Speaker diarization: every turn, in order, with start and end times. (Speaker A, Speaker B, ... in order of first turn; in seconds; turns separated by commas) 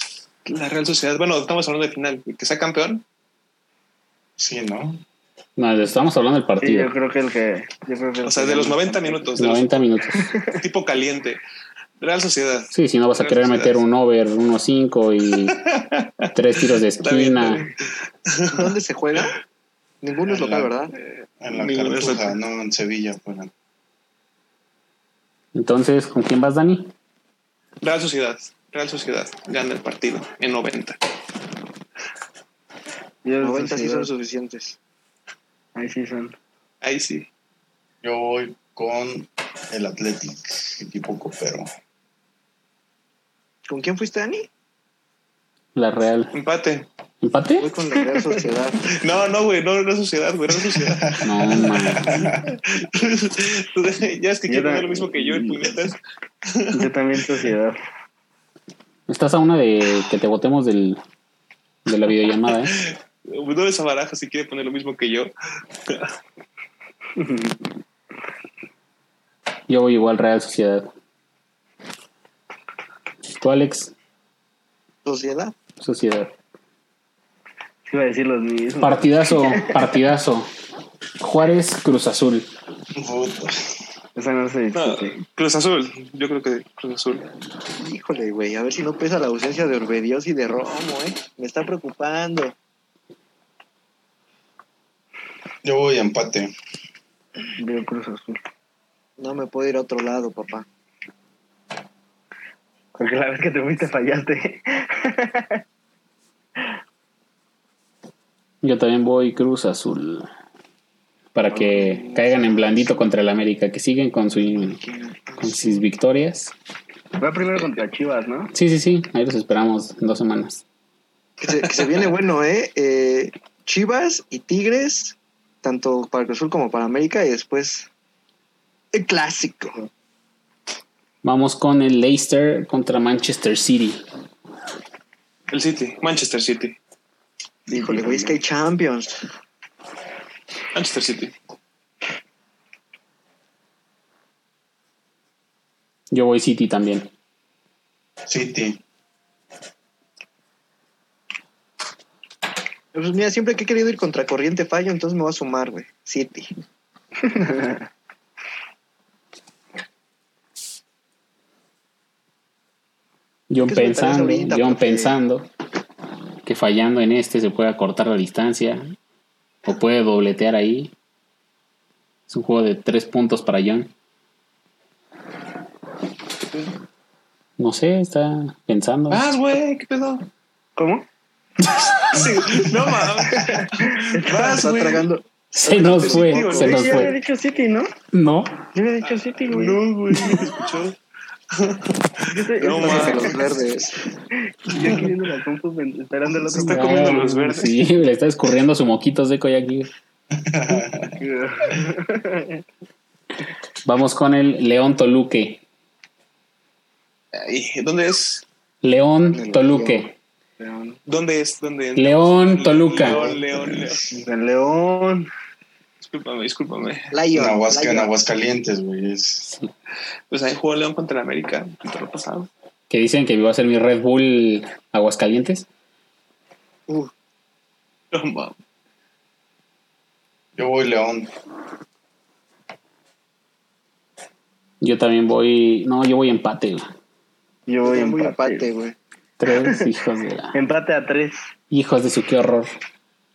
Speaker A: 0.5-3.0, Speaker B: 4.4-5.0, Speaker C: 5.6-6.9, Speaker D: 6.6-9.4, Speaker A: 8.2-11.4, Speaker C: 9.4-10.3, Speaker A: 12.0-13.8, Speaker C: 12.7-15.6, Speaker A: 15.4-18.8, Speaker C: 16.3-17.6, Speaker E: 18.5-19.4, Speaker E: 20.0-20.9, Speaker B: 20.2-20.7, Speaker A: 21.0-22.4, Speaker B: 21.4-23.5, Speaker C: 25.6-26.9, Speaker A: 27.8-31.0, Speaker D: 33.2-34.1, Speaker E: 33.4-34.8, Speaker D: 35.8-36.4, Speaker A: 36.8-37.3, Speaker B: 38.0-41.7, Speaker E: 43.7-44.5, Speaker C: 45.8-46.3, Speaker A: 46.3-46.9, Speaker C: 47.2-47.7, Speaker E: 47.6-48.9, Speaker A: 48.9-56.9, Speaker B: 50.8-52.5, Speaker C: 51.2-52.2, Speaker D: 54.5-55.7, Speaker D: 56.7-57.8, Speaker C: 59.1-61.0, Speaker C: 61.9-62.7, Speaker A: 62.6-65.3, Speaker A: 65.9-66.1, Speaker D: 67.2-67.7, Speaker C: 69.7-70.9, Speaker C: 73.3-73.9, Speaker E: 75.0-75.5, Speaker C: 75.8-76.3, Speaker D: 77.9-79.9, Speaker C: 78.8-80.5, Speaker C: 81.2-82.5, Speaker B: 83.0-83.7, Speaker D: 84.2-85.2, Speaker A: 84.7-87.3, Speaker E: 87.8-92.5, Speaker B: 95.6-96.5, Speaker D: 97.6-98.4, Speaker E: 99.2-100.7, Speaker D: 103.0-105.6, Speaker C: 108.6-110.3, Speaker C: 111.3-114.8, Speaker E: 111.5-113.1, Speaker D: 111.8-112.2, Speaker E: 114.6-115.8, Speaker C: 115.4-116.5, Speaker D: 117.2-118.5, Speaker C: 118.5-120.6, Speaker E: 121.4-127.9, Speaker A: 121.6-122.0, Speaker E: 128.9-129.8, Speaker C: 131.2-134.1, Speaker A: 135.5-136.8, Speaker D: 137.7-138.4, Speaker E: 137.7-139.3, Speaker A: 140.7-141.3, Speaker C: 146.1-147.1, Speaker B: 148.3-148.8, Speaker E: 152.9-156.5, Speaker D: 157.2-157.8, Speaker C: 163.5-165.5, Speaker E: 163.7-165.2, Speaker C: 166.4-169.0, Speaker C: 169.6-170.9, Speaker C: 172.3-173.9, Speaker C: 177.6-179.3, Speaker A: 179.1-180.3, Speaker D: 180.8-181.1, Speaker A: 182.1-185.1, Speaker D: 183.3-184.6, Speaker E: 184.4-186.9, Speaker C: 185.6-187.2, Speaker A: 185.6-187.1, Speaker D: 186.5-187.9, Speaker C: 188.1-188.7, Speaker D: 188.7-189.8, Speaker A: 189.0-191.0, Speaker A: 191.5-193.6, Speaker D: 192.3-193.4, Speaker E: 192.8-194.0, Speaker D: 194.4-197.2, Speaker C: 194.8-195.1, Speaker A: 194.8-195.1, Speaker A: 196.5-197.8, Speaker C: 196.6-199.9, Speaker B: 200.3-201.2, Speaker D: 201.2-202.6, Speaker C: 203.8-205.6, Speaker A: 207.3-208.5, Speaker C: 208.8-210.1, Speaker E: 209.3-210.1, Speaker D: 210.6-211.0, Speaker A: 211.1-214.1, Speaker C: 212.0-213.3, Speaker E: 213.1-213.4, Speaker B: 213.5-214.1, Speaker D: 214.1-215.3, Speaker A: 216.0-217.2, Speaker E: 217.1-218.1, Speaker B: 217.3-219.5, Speaker A: 220.3-222.5, Speaker C: 222.9-225.7, Speaker A: 228.1-228.6, Speaker B: 230.6-231.3, Speaker C: 234.8-236.9, Speaker D: 237.7-238.7, Speaker E: 237.8-239.0, Speaker C: 239.4-240.6, Speaker D: 239.5-239.8, Speaker D: 240.5-241.5, Speaker C: 241.7-242.8